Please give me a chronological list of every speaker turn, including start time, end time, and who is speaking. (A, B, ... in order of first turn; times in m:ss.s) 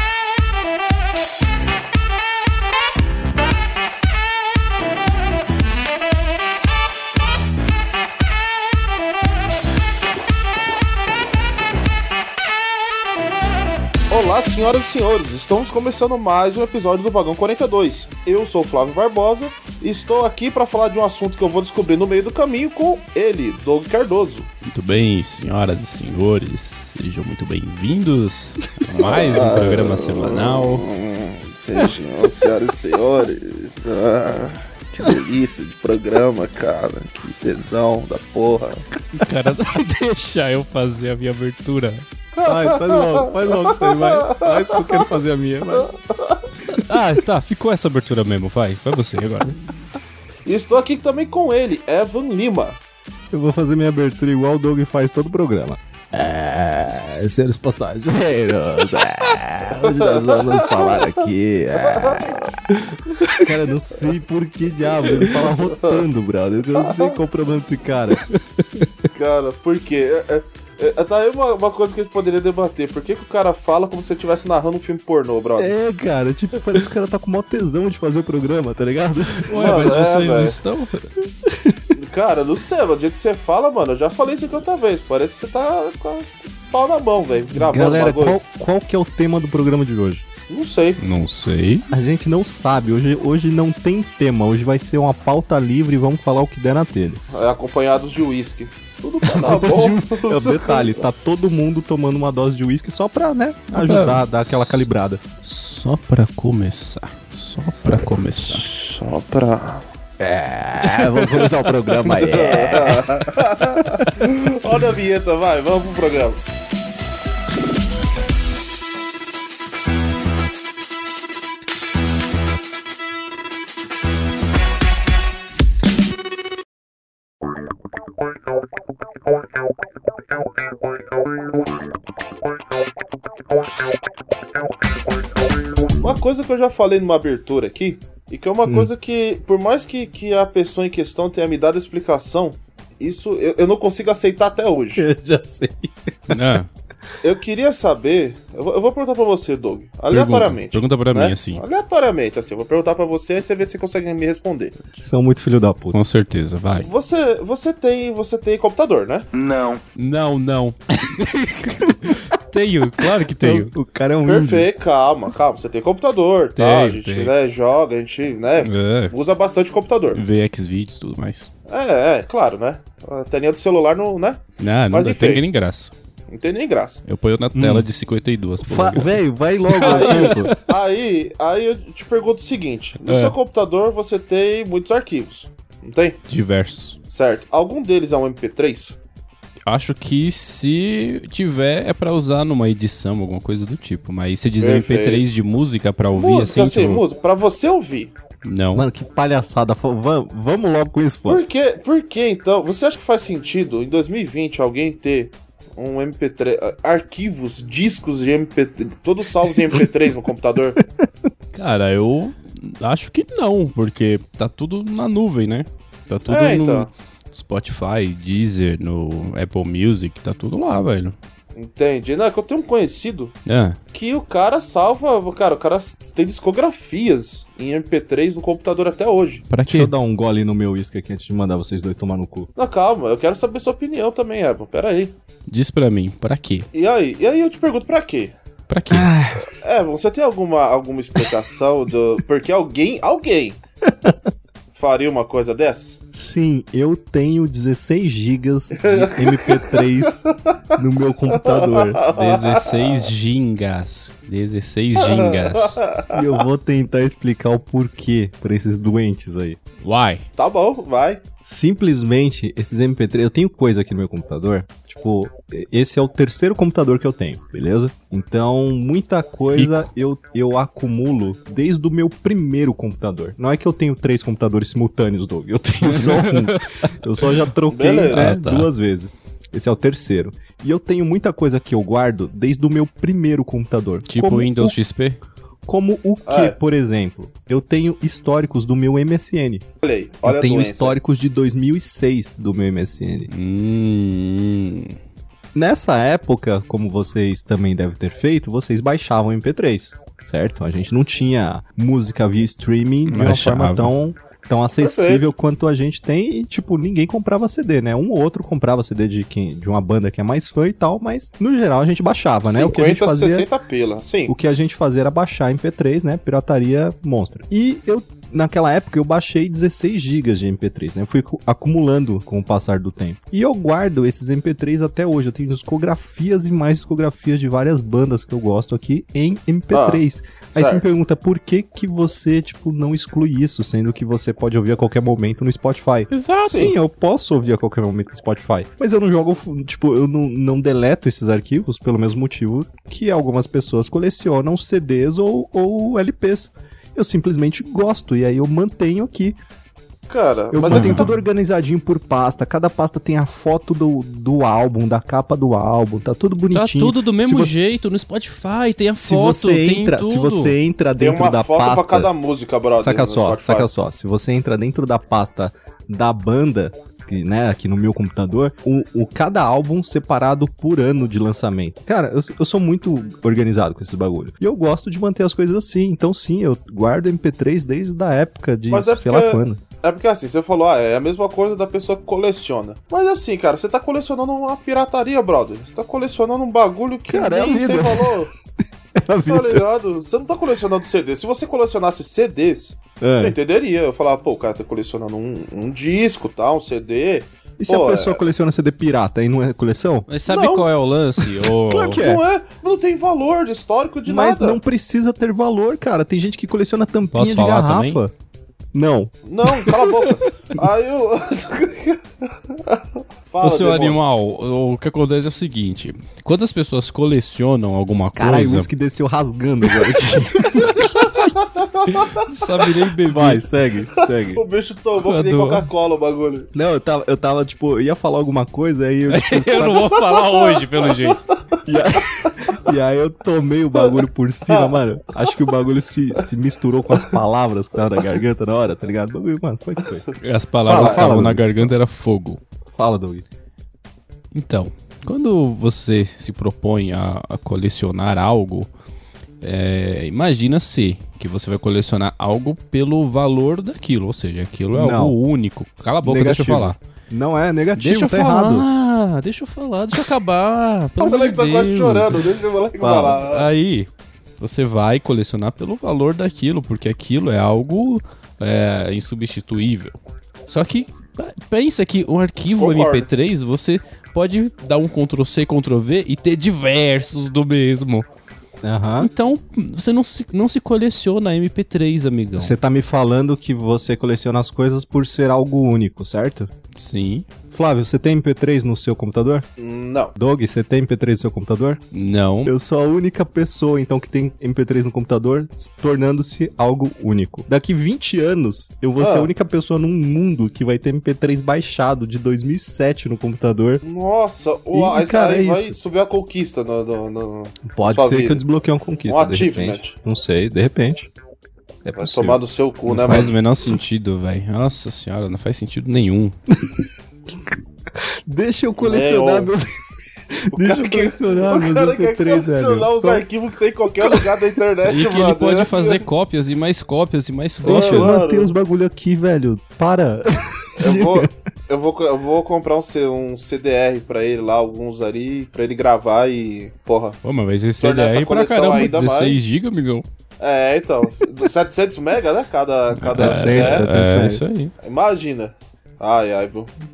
0:14.1-0:24.5 A
0:24.6-0:30.9 B
0:29.0-0:38.8 A
0:39.1-0:42.0 B
0:42.3-0:45.0 A
0:42.4-0:45.9 C
0:45.7-0:46.5 A
0:46.7-0:49.6 B
0:50.4-0:52.8 A
0:53.3-1:02.4 C
0:59.8-1:01.2 A
1:01.8-1:02.4 A
1:03.4-1:08.3 C
1:05.6-1:06.0 A
1:06.8-1:07.1 A
1:09.1-1:15.7 A
1:15.6-1:19.6 C
1:19.3-1:21.1 B
1:19.5-1:20.6 A
1:21.4-1:21.9 C
1:21.9-1:28.4 A
1:27.5-1:30.2 C
1:30.5-1:31.0 A
1:31.0-1:31.9 B
1:31.9-1:37.2 C
1:37.3-1:41.0 A
1:39.2-1:45.2 C
1:43.7-1:44.9 B
1:45.4-1:48.7 B
1:48.4-1:49.8 A
1:50.2-1:53.4 C
1:50.8-1:51.7 B
1:52.0-1:56.4 A
2:16.0-2:25.0 A
2:25.0-2:26.4 C
2:26.3-2:26.7 B
2:27.2-2:34.8 A
2:30.1-2:31.6 B
2:35.0-2:36.0 C
2:35.9-2:36.9 B
2:36.8-2:39.3 A
2:39.9-2:43.7 B
2:43.2-2:44.7 C
2:44.3-2:50.2 A
2:46.6-2:47.3 B
2:48.6-2:49.1 B
2:50.1-2:51.5 B
2:51.7-2:54.4 A
2:54.6-2:55.9 B
2:54.9-2:55.4 A
2:56.3-2:57.0 A
2:57.0-3:00.7 B
2:57.5-2:57.9 C
2:58.6-3:00.5 C
2:59.8-3:06.2 A
3:03.0-3:03.3 B
3:06.3-3:07.0 B
3:07.1-3:09.0 A
3:09.7-3:17.0 B
3:14.6-3:15.2 A
3:16.1-3:18.1 A
3:18.4-3:18.9 B
3:18.7-3:21.4 C
3:21.2-3:30.8 A
3:31.5-3:41.1 B
3:36.3-3:36.9 A
3:41.5-3:43.3 A
3:43.4-3:43.8 B
3:43.9-3:49.4 A
3:49.5-3:49.9 B
3:49.6-3:52.5 C
3:52.6-3:55.1 A
3:55.5-3:56.7 B
3:56.7-3:58.3 A
3:58.7-3:59.2 B
3:58.9-3:59.5 C
3:59.4-4:03.6 A
4:04.7-4:06.0 A
4:06.1-4:12.0 C
4:08.8-4:10.6 A
4:11.4-4:13.1 A
4:12.1-4:15.8 B
4:15.0-4:16.3 A
4:16.1-4:19.6 C
4:19.8-4:20.2 B
4:20.4-4:21.2 A
4:21.4-4:44.8 C
4:29.5-4:29.9 B
4:36.0-4:36.6 B
4:37.7-4:38.3 A
4:38.1-4:38.7 B
4:44.1-4:45.2 B
4:45.6-4:49.6 C
4:46.3-4:46.6 A
4:49.8-4:51.0 A
4:50.2-4:53.3 C
4:53.3-4:55.0 B
4:55.5-5:13.5 C
5:03.1-5:03.9 B
5:04.8-5:05.2 A
5:12.4-5:14.3 A
5:14.3-5:49.4 C
5:29.7-5:30.0 A
5:30.5-5:30.8 A
5:36.1-5:36.7 B
5:36.5-5:36.7 A
5:50.1-5:51.1 A
5:50.5-5:57.6 C
5:50.7-5:51.1 B
5:56.5-6:00.6 B
5:59.0-6:02.1 C
6:01.0-6:03.7 A
6:02.8-6:19.6 C
6:18.7-6:28.3 A
6:27.1-6:28.3 C
6:29.0-6:29.6 C
6:29.3-6:38.2 A
6:33.0-6:33.4 C
6:37.6-6:40.1 C
6:40.1-6:42.0 B
6:40.3-6:40.7 A
6:41.6-6:42.2 C
6:42.0-6:44.6 A
6:44.1-6:48.1 C
6:47.1-6:48.0 B
6:48.7-6:49.8 C
6:49.2-6:54.0 A
6:53.4-6:58.7 B
6:58.2-7:01.1 C
7:00.1-7:00.8 B
7:01.3-7:02.3 A
7:01.9-7:03.4 B
7:03.0-7:04.4 C
7:04.3-7:06.5 A
7:05.0-7:05.7 B
7:06.5-7:10.0 C
7:09.1-7:11.2 B
7:09.8-7:11.1 A
7:11.6-7:20.1 C
7:14.5-7:14.8 A
7:20.2-7:22.4 B
7:20.6-7:21.7 C
7:20.7-7:21.1 A
7:22.7-7:23.2 C
7:24.3-7:28.7 B
7:29.4-7:36.8 B
7:34.7-7:35.2 C
7:36.0-7:38.6 C
7:37.8-7:42.3 B
7:41.0-7:43.5 A
7:42.8-7:43.2 C
7:43.2-7:43.9 B
7:44.4-7:49.9 B
7:50.5-7:58.0 B
7:52.6-7:53.1 A
7:58.6-7:59.1 C
7:59.0-8:02.5 B
8:02.4-8:06.5 C
8:06.7-8:07.2 B
8:07.5-8:09.4 C
8:09.6-8:10.1 A
8:10.1-8:11.8 C
8:11.9-8:12.5 B
8:12.4-8:23.8 C
8:19.0-8:19.3 A
8:23.8-8:28.4 A
8:24.7-8:25.8 C
8:27.7-8:31.1 C
8:29.1-8:30.0 A
8:31.8-8:32.4 C
8:32.0-8:33.4 A
8:32.8-8:36.4 B
8:36.6-8:39.8 C
8:38.8-8:39.5 A
8:40.3-8:43.2 C
8:40.5-8:46.0 A
8:44.0-8:44.4 C
8:44.8-8:48.2 B
8:47.6-8:48.5 A
8:47.6-8:51.3 C
8:50.8-8:57.2 A
8:57.2-9:00.0 B
8:57.8-8:59.4 A
9:00.4-9:03.8 A
9:02.9-9:04.7 B
9:03.1-9:04.4 C
9:04.8-9:06.7 A